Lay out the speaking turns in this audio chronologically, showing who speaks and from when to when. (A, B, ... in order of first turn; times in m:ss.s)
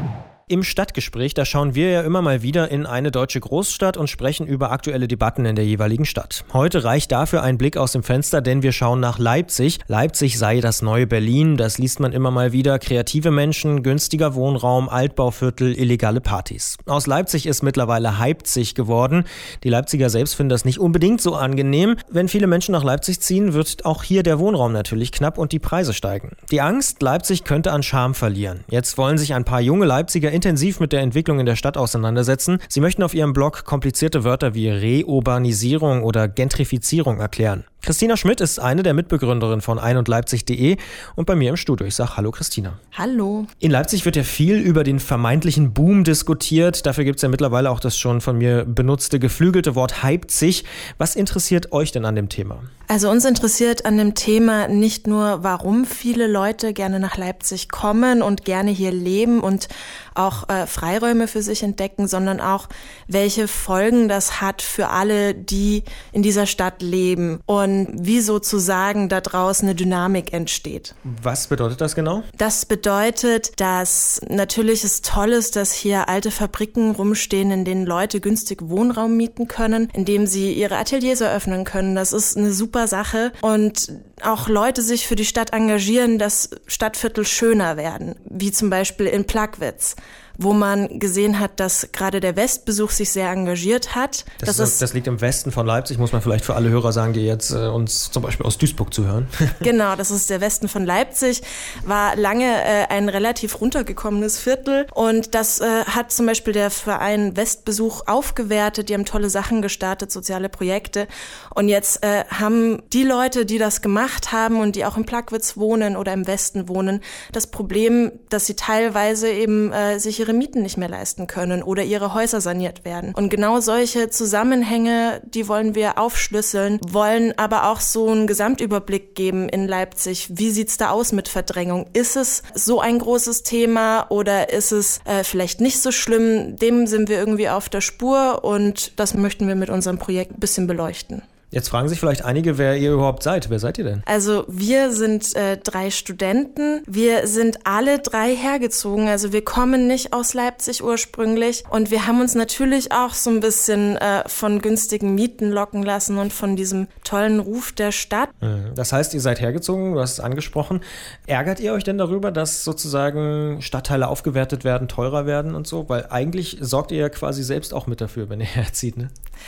0:00.5-0:42.8 A
0:42.9-0:43.5 B
0:43.6-0:52.7 A
0:52.9-1:10.9 B
1:11.0-1:12.3 A
1:12.4-1:34.8 B
1:34.4-1:39.7 A
1:39.6-2:21.2 B
2:21.5-2:24.0 A
2:24.1-2:38.3 B
2:38.4-2:49.1 A